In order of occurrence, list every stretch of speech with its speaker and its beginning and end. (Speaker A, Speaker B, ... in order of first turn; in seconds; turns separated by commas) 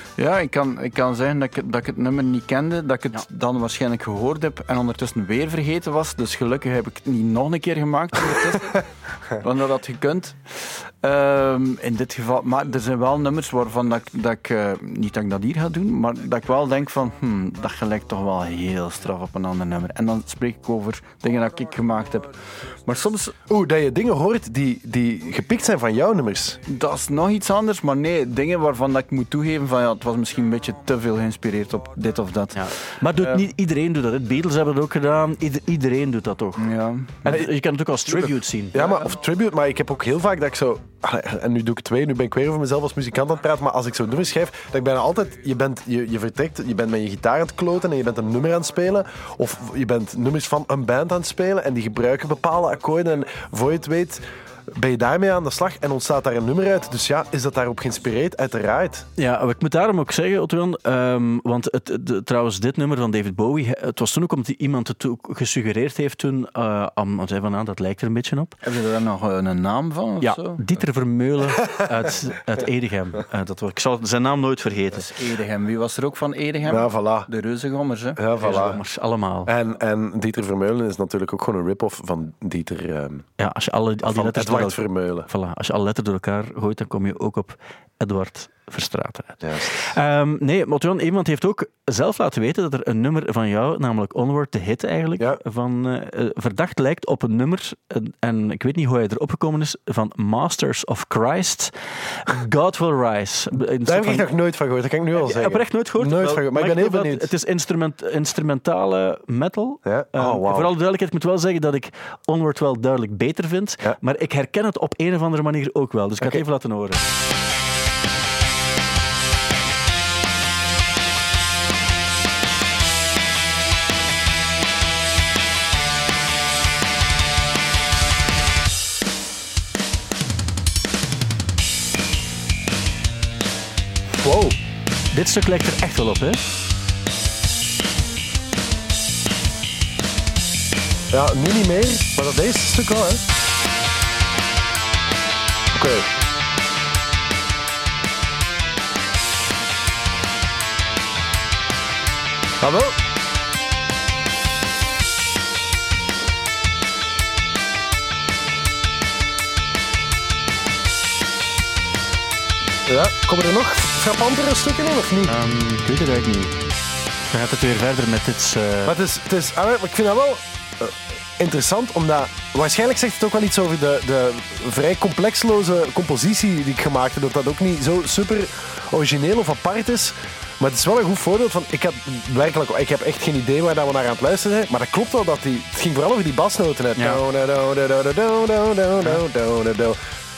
Speaker A: 0.2-23.3, Speaker B: 23.5-26.6, Speaker A: 26.7-33.4, Speaker C: 32.5-36.6, Speaker A: 36.6-37.2, Speaker C: 37.2-38.8, Speaker B: 37.2-37.5, Speaker B: 38.1-59.0, Speaker C: 59.2-68.6, Speaker A: 68.6-70.6, Speaker C: 70.2-75.1, Speaker A: 74.9-78.7, Speaker B: 76.7-77.3, Speaker B: 78.2-78.8, Speaker C: 78.4-79.5, Speaker B: 79.5-83.3, Speaker C: 83.4-104.2, Speaker B: 84.0-85.3, Speaker B: 89.4-90.0, Speaker B: 103.8-107.3, Speaker C: 105.2-117.0, Speaker B: 109.8-110.7, Speaker B: 134.2-134.6, Speaker C: 135.1-136.5, Speaker B: 141.1-143.2, Speaker B: 145.7-146.1, Speaker B: 152.6-152.9, Speaker B: 162.8-165.4, Speaker C: 165.3-166.6, Speaker C: 167.3-169.0, Speaker B: 168.8-190.0, Speaker C: 186.9-187.2